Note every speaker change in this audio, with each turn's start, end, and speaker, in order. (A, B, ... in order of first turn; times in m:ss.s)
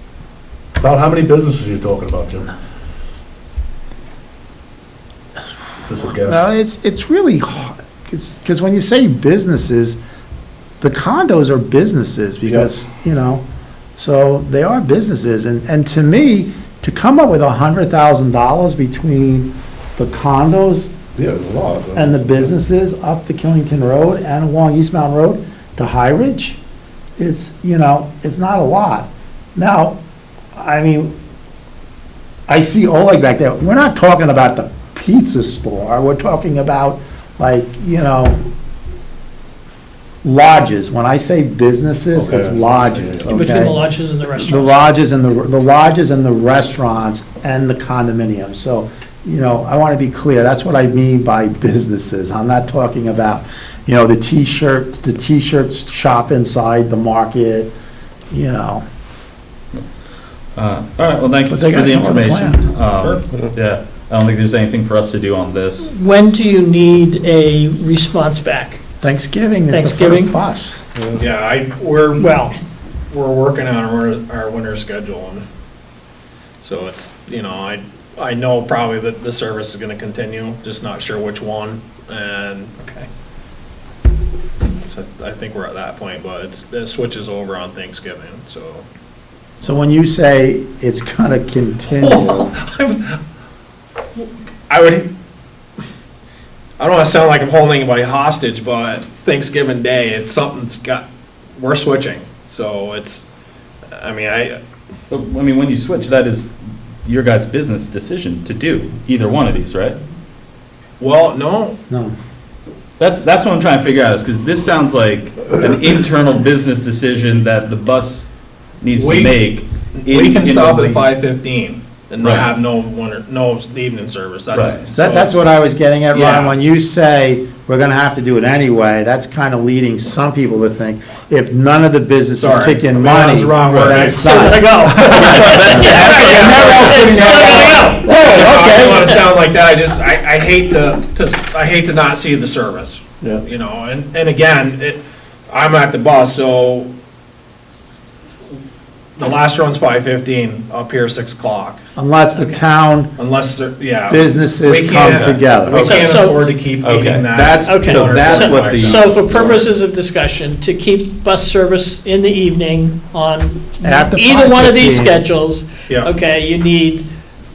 0:00.8-0:02.5 A
0:05.9-0:06.4 A
0:06.3-0:10.0 B
0:10.8-0:13.4 B
0:14.0-0:21.0 B
0:21.2-0:22.1 A
0:22.0-0:26.6 B
0:27.2-0:30.0 B
0:30.6-0:31.1 B
0:32.5-0:38.4 B
0:40.2-0:43.8 B
0:42.2-0:43.3 A
0:43.3-0:44.9 C
0:44.3-0:57.7 B
0:58.3-0:58.8 B
1:00.5-1:05.9 D
1:01.5-1:02.6 B
1:05.8-1:08.8 C
1:09.0-1:10.8 B
1:09.7-1:10.3 C
1:11.2-1:12.3 E
1:12.2-1:12.6 C
1:13.1-1:15.4 E
1:16.6-1:23.1 E
1:24.8-1:28.8 E
1:29.6-1:32.5 B
1:32.0-1:33.2 E
1:34.7-1:35.1 E
1:36.8-1:43.3 E
1:43.9-1:44.6 E
1:45.1-1:46.5 D
1:47.0-1:50.0 D
1:51.0-1:51.8 E
1:53.0-2:01.1 D
1:59.0-1:59.3 E
2:00.0-2:05.4 E
2:02.2-2:02.5 D
2:04.5-2:04.8 D
2:05.0-2:19.2 B
2:06.1-2:06.5 E
2:12.4-2:26.9 E
2:13.6-2:14.2 D
2:14.4-2:19.2 C
2:29.2-2:31.8 E
2:32.0-2:33.1 B
2:32.3-2:32.6 C
2:33.2-2:39.6 E
2:34.1-2:36.0 B
2:35.8-2:36.4 C
2:36.8-2:39.7 D
2:37.7-2:47.1 C
2:43.8-2:45.2 B